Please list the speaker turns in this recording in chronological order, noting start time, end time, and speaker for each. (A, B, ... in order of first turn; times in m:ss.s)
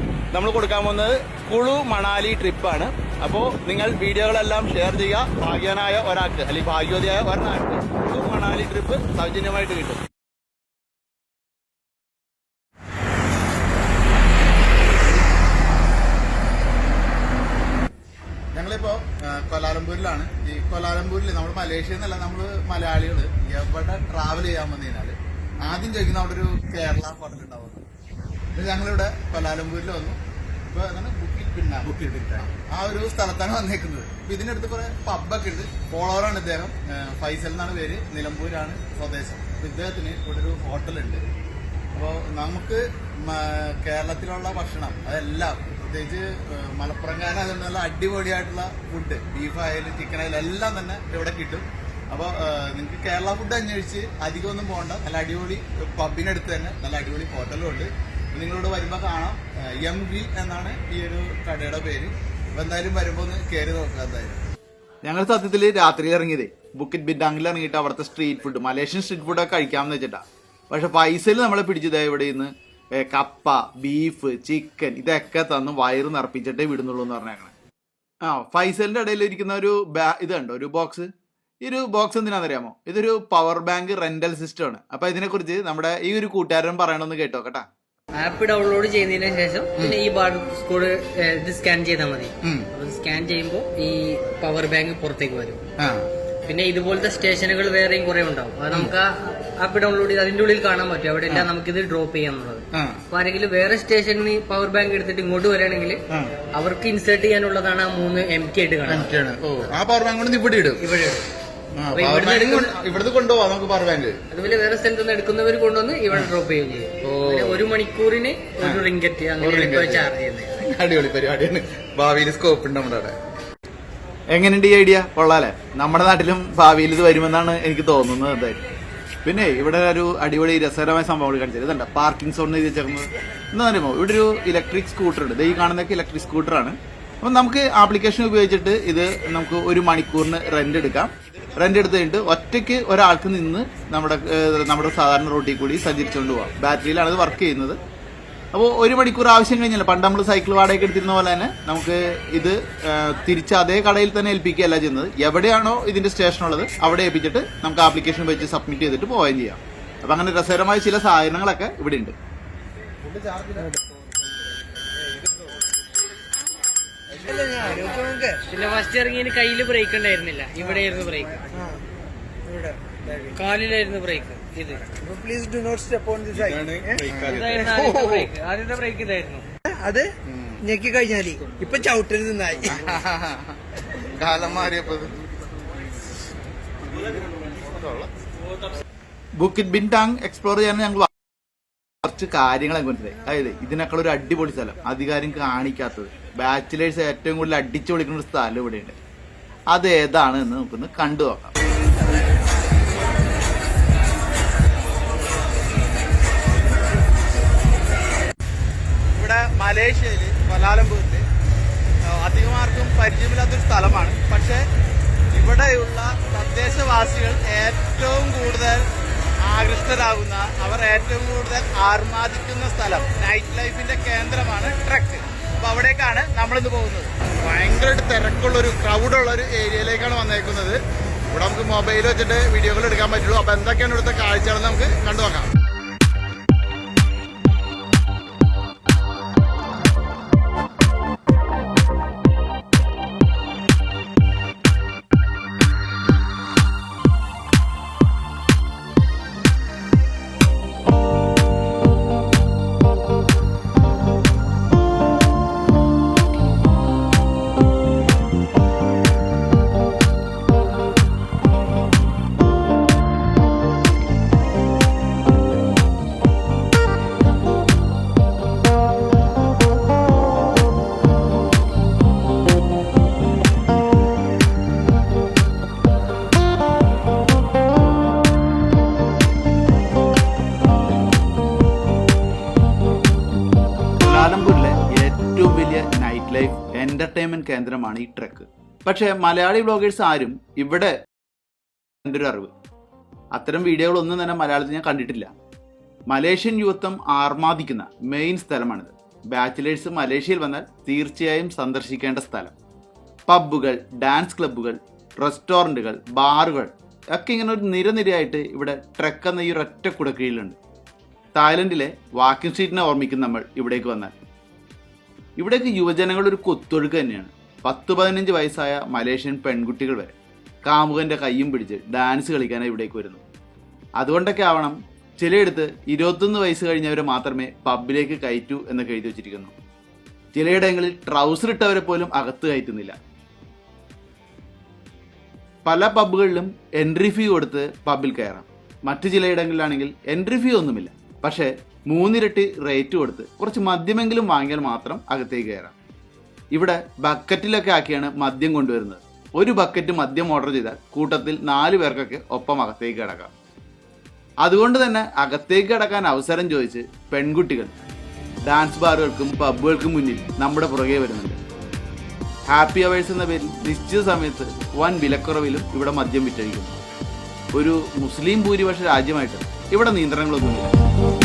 0:00.3-0:10.1 A
0:18.5-0:27.8 A
0:28.5-0:41.2 A
0:41.9-1:04.4 A
1:05.0-1:17.5 A
1:18.2-1:21.1 A
1:21.6-1:27.7 A
1:28.2-1:35.6 B
1:32.4-1:32.7 A
1:35.8-1:36.1 A
1:36.5-1:46.0 B
1:42.7-1:43.0 A
1:46.6-1:49.1 B
1:48.9-1:50.8 A
1:50.8-1:51.3 B
1:51.8-1:54.2 A
1:51.9-1:52.8 B
1:54.3-2:00.7 B
1:57.0-1:57.6 A
1:58.6-1:58.8 A
1:59.4-2:00.0 A
2:00.6-2:03.2 A
2:04.3-2:08.6 A
2:09.2-2:27.8 A
2:28.5-2:42.2 A
2:43.0-2:43.7 A
2:47.1-2:48.4 C
2:48.5-2:51.4 B
2:51.5-2:51.8 C
2:52.4-2:53.4 C
2:53.4-2:54.9 B
2:55.0-2:57.1 C
2:57.0-2:58.3 A
2:57.1-2:59.4 B
2:59.6-3:03.0 C
3:00.2-3:00.6 A
3:02.6-3:03.6 A
3:04.1-3:05.1 A
3:07.6-3:08.1 A
3:09.4-3:11.1 A
3:12.0-3:19.0 A
3:19.7-3:21.5 A
3:29.1-3:31.2 A
3:32.0-3:34.7 A
3:35.3-3:38.9 A
3:39.4-3:55.5 A
4:44.0-4:51.0 A
4:52.0-4:52.5 A
4:53.3-4:55.3 A
4:56.1-5:02.5 A
5:03.3-5:10.6 A
5:11.3-5:14.1 A
5:15.4-5:20.1 A
5:20.6-5:23.2 A
5:24.0-5:29.5 A
5:30.3-5:33.0 A
5:35.6-5:45.7 A
5:46.5-5:53.3 A
5:54.4-5:57.7 A
5:58.5-6:01.4 A
6:02.5-6:06.8 A
6:07.5-6:10.7 A